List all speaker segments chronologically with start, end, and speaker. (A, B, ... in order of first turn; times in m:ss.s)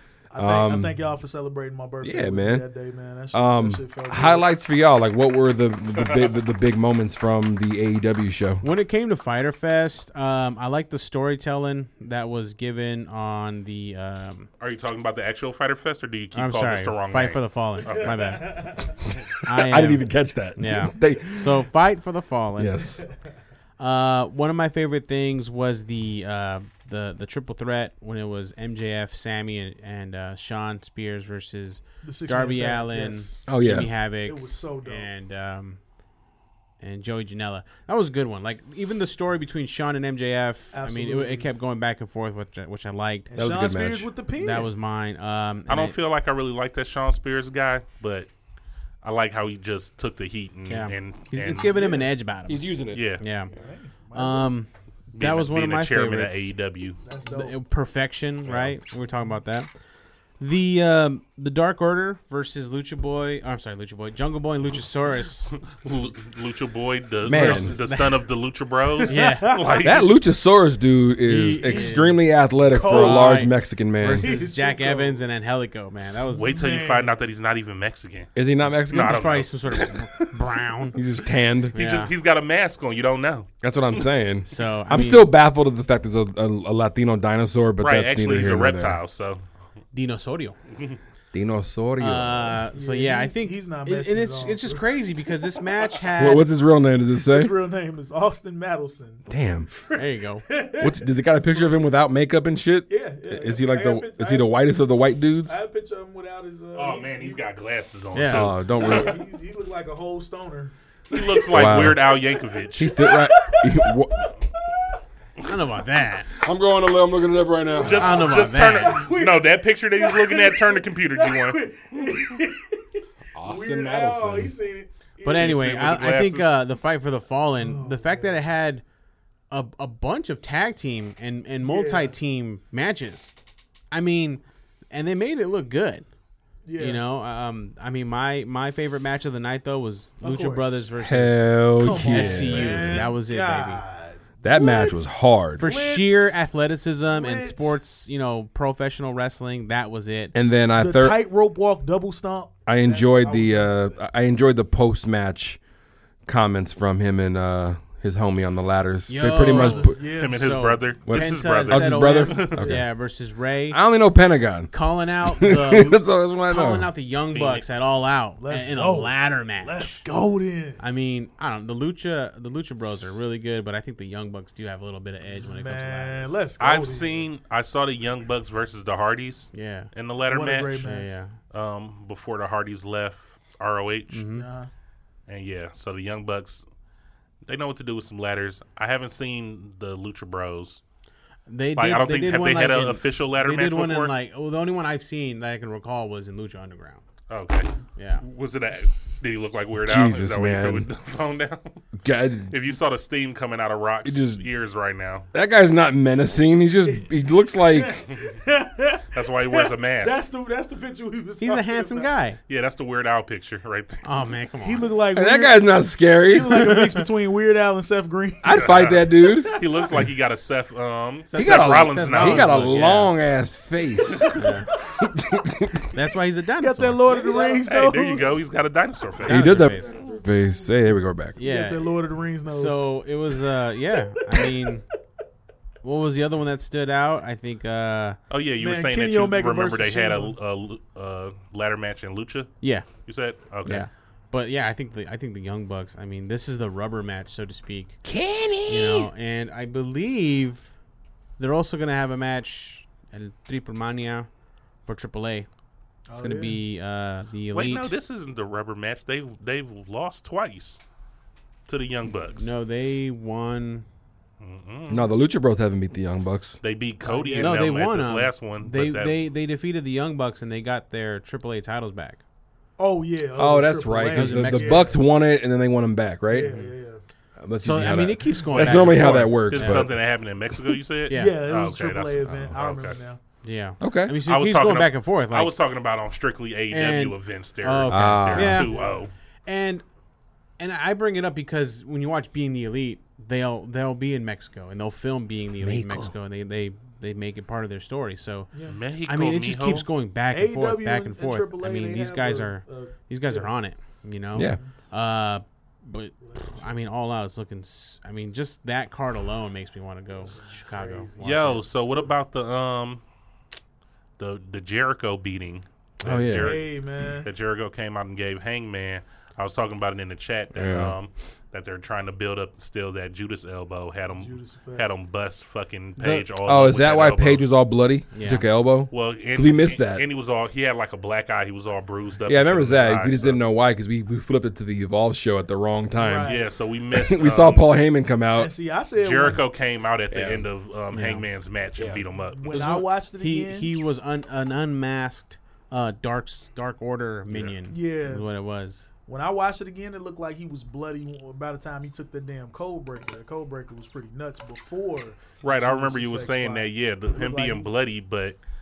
0:00.3-0:04.5 A
0:00.4-0:01.0 B
0:02.0-0:02.6 B
0:03.3-0:08.6 B
0:06.0-0:06.4 C
0:08.6-0:14.5 D
0:14.6-0:18.6 C
0:16.3-0:18.6 D
0:17.9-0:19.0 A
0:19.4-0:21.6 B
0:19.4-0:22.9 D
0:22.6-0:23.0 B
0:23.8-0:35.8 D
0:32.0-0:35.1 A
0:33.5-0:33.9 B
0:36.8-0:43.3 D
0:40.7-0:41.5 A
0:43.3-0:44.7 A
0:43.3-0:44.1 B
0:44.4-0:46.0 D
0:45.7-0:48.3 C
0:49.0-0:51.7 C
0:50.7-0:53.5 D
0:51.6-0:52.1 A
0:52.5-0:53.0 B
0:52.9-0:53.2 C
0:53.5-0:54.6 A
0:54.1-0:56.5 D
0:55.1-0:57.0 C
0:57.0-0:57.6 A
0:57.3-0:59.7 D
0:58.4-0:58.8 C
1:00.4-1:05.5 D
1:05.6-1:10.1 C
1:07.3-1:07.8 B
1:07.3-1:08.2 D
1:09.0-1:10.0 A
1:09.1-1:09.6 D
1:09.8-1:14.3 B
1:11.3-1:12.3 D
1:11.6-1:13.4 A
1:12.8-1:16.6 D
1:14.2-1:15.2 A
1:16.3-1:17.2 A
1:16.4-1:18.3 C
1:18.3-1:19.3 B
1:18.9-1:20.1 C
1:18.9-1:21.0 D
1:21.0-1:21.7 B
1:21.7-1:23.5 C
1:21.7-1:22.1 D
1:23.6-1:29.0 B
1:24.4-1:25.3 D
1:27.8-1:29.4 C
1:29.9-1:30.6 D
1:30.7-1:31.0 C
1:31.3-1:32.6 B
1:32.0-1:36.5 D
1:32.7-1:35.9 A
1:36.2-1:37.6 B
1:37.2-1:41.7 A
1:39.3-1:39.7 B
1:39.9-1:40.4 D
1:40.8-1:45.6 B
1:42.9-1:44.6 A
1:45.4-1:47.4 A
1:46.7-1:49.2 C
1:48.1-1:48.5 D
1:48.3-1:49.2 B
1:48.8-1:54.0 A
1:51.1-1:52.9 C
1:51.5-1:52.0 B
1:52.7-1:54.3 B
1:55.4-1:56.3 D
1:56.4-1:58.3 B
1:57.8-2:01.6 C
1:58.0-1:59.0 D
1:58.0-2:05.8 A
2:03.3-2:04.5 B
2:05.2-2:08.8 D
2:05.3-2:06.5 C
2:07.6-2:08.4 A
2:09.5-2:13.3 D
2:11.6-2:12.1 A
2:13.9-2:16.0 D
2:16.6-2:17.0 A
2:16.8-2:23.8 D
2:20.2-2:20.8 A
2:21.0-2:23.1 B
2:21.8-2:26.4 A
2:24.4-2:25.6 B
2:25.6-2:30.3 D
2:27.1-2:27.7 A
2:30.3-2:31.2 B
2:30.7-2:34.0 A
2:32.6-2:35.6 B
2:36.3-2:40.0 B
2:39.1-2:43.8 D
2:39.3-2:40.6 A
2:40.0-2:42.6 C
2:41.0-2:42.9 B
2:42.5-2:42.8 A
2:43.7-2:44.7 B
2:44.7-2:50.0 D
2:45.3-2:46.9 B
2:47.3-2:47.9 C
2:48.4-2:50.8 A
2:50.8-2:56.3 D
2:55.4-2:57.3 A
2:56.6-3:00.9 C
2:59.5-2:59.9 D
3:00.3-3:01.1 A
3:00.8-3:01.4 D
3:01.5-3:04.2 C
3:04.1-3:04.4 D
3:04.3-3:04.7 A
3:05.3-3:06.6 C
3:07.4-3:10.8 C
3:11.5-3:17.0 D
3:11.8-3:14.1 C
3:17.3-3:21.8 C
3:18.0-3:18.2 D
3:19.8-3:20.9 B
3:22.0-3:22.5 B
3:22.5-3:25.3 C
3:24.0-3:24.4 B
3:25.3-3:28.0 B
3:27.6-3:32.1 A
3:29.1-3:30.2 C
3:31.4-3:32.4 D
3:32.5-3:34.0 C
3:34.0-3:34.9 D
3:34.6-3:40.0 A
3:35.1-3:36.7 B
3:36.5-3:37.0 D
3:38.4-3:39.6 B
3:38.5-3:42.7 C
3:41.3-3:43.1 D
3:41.4-3:44.3 B
3:44.3-3:44.7 D
3:45.0-3:45.9 B
3:45.9-3:47.6 D
3:46.6-3:48.4 A
3:47.1-3:49.7 C
3:49.3-3:49.9 D
3:49.3-3:51.4 B
3:51.4-3:54.8 D
3:51.4-3:53.0 A
3:55.8-3:58.2 D
3:58.3-4:03.9 C
3:58.6-4:00.4 A
4:02.6-4:02.9 D
4:03.6-4:08.0 D
4:08.0-4:09.1 B
4:08.7-4:10.7 D
4:11.4-4:14.3 D
4:14.8-4:15.5 D
4:16.1-4:16.6 A
4:16.2-4:17.9 D
4:17.5-4:20.8 C
4:21.7-4:22.5 C
4:22.4-4:23.8 D
4:24.4-4:25.1 C
4:24.9-4:26.6 B
4:26.6-4:29.2 C
4:27.0-4:27.7 A
4:27.4-4:32.2 D
4:32.8-4:35.0 A
4:33.3-4:36.5 B
4:34.1-4:34.9 D
4:36.3-4:37.0 A
4:36.4-4:36.7 D
4:37.4-4:40.0 B
4:37.6-4:39.9 D
4:38.5-4:43.0 C
4:41.1-4:41.4 D
4:41.1-4:43.2 A
4:43.4-4:45.5 D
4:43.8-4:44.2 B
4:44.2-4:49.1 C
4:46.7-4:48.8 D
4:47.9-4:48.7 B
4:48.6-4:49.1 A
4:49.4-4:49.8 D
4:50.6-5:11.6 D
4:55.6-4:56.1 B
4:58.5-4:58.8 A
4:58.6-4:59.9 C
5:00.3-5:03.5 A
5:04.3-5:04.6 B
5:04.3-5:04.7 A
5:06.2-5:06.6 A
5:10.1-5:12.1 A
5:11.2-5:13.0 C
5:14.2-5:16.7 C
5:16.0-5:16.6 B
5:16.3-5:17.3 A
5:17.2-5:27.5 C
5:20.5-5:21.0 B
5:24.2-5:24.9 A
5:26.0-5:26.3 D
5:26.4-5:30.0 B
5:28.1-5:28.4 D
5:28.9-5:33.4 C
5:32.3-5:36.3 B
5:36.0-5:36.5 A
5:36.3-5:37.7 C
5:36.9-5:38.5 B
5:38.3-5:39.4 A
5:39.0-5:42.4 C
5:40.1-5:40.4 B
5:40.9-5:41.3 D
5:41.8-5:42.0 B
5:42.3-5:43.7 A
5:42.5-5:48.8 D
5:47.7-5:48.3 A
5:49.0-5:57.7 A
5:55.4-5:58.4 C